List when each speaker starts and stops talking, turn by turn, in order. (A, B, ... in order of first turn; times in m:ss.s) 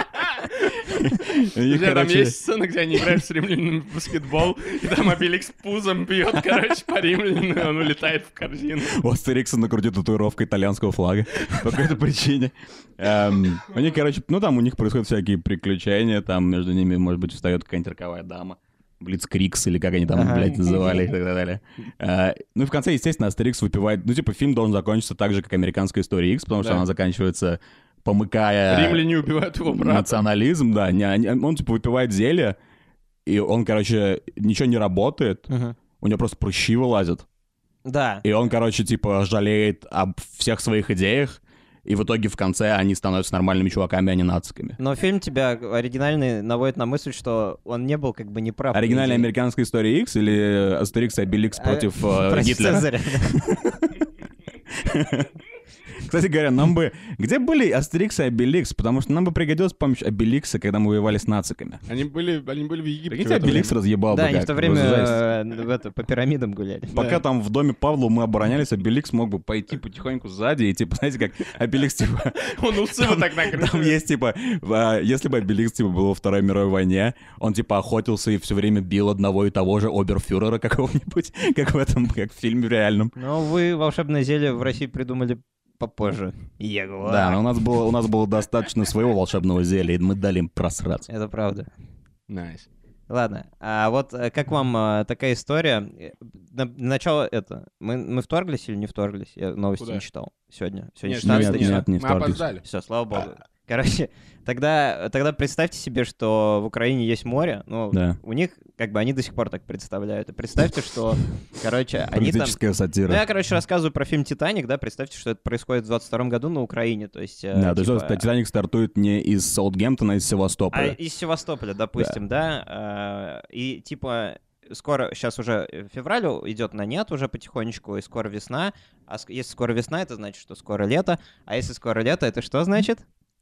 0:00.8-0:02.4 A
0:01.7-0:09.0 B
0:08.8-0:29.1 A
0:20.1-0:21.0 C
0:28.7-0:30.2 B
0:29.8-0:32.6 A
0:33.3-0:35.5 A
0:35.5-0:35.8 C
0:36.0-0:37.2 A
0:37.8-0:38.2 C
0:38.2-0:44.8 A
0:44.8-0:49.3 C
0:48.7-0:53.9 A
0:51.6-0:53.4 C
0:54.7-0:55.4 A
0:55.9-1:01.8 A
1:01.9-1:03.8 B
1:03.1-1:05.2 A
1:04.1-1:07.0 C
1:07.0-1:23.1 A
1:07.0-1:07.2 B
1:12.4-1:14.0 B
1:23.2-1:27.4 C
1:27.0-1:31.1 A
1:31.1-1:31.7 C
1:32.3-1:32.7 B
1:33.1-1:41.9 C
1:41.0-1:42.6 B
1:41.2-1:42.4 A
1:42.6-1:58.2 C
1:47.9-1:48.2 A
1:52.1-1:53.2 A
1:57.5-2:01.0 A
2:00.7-2:13.0 C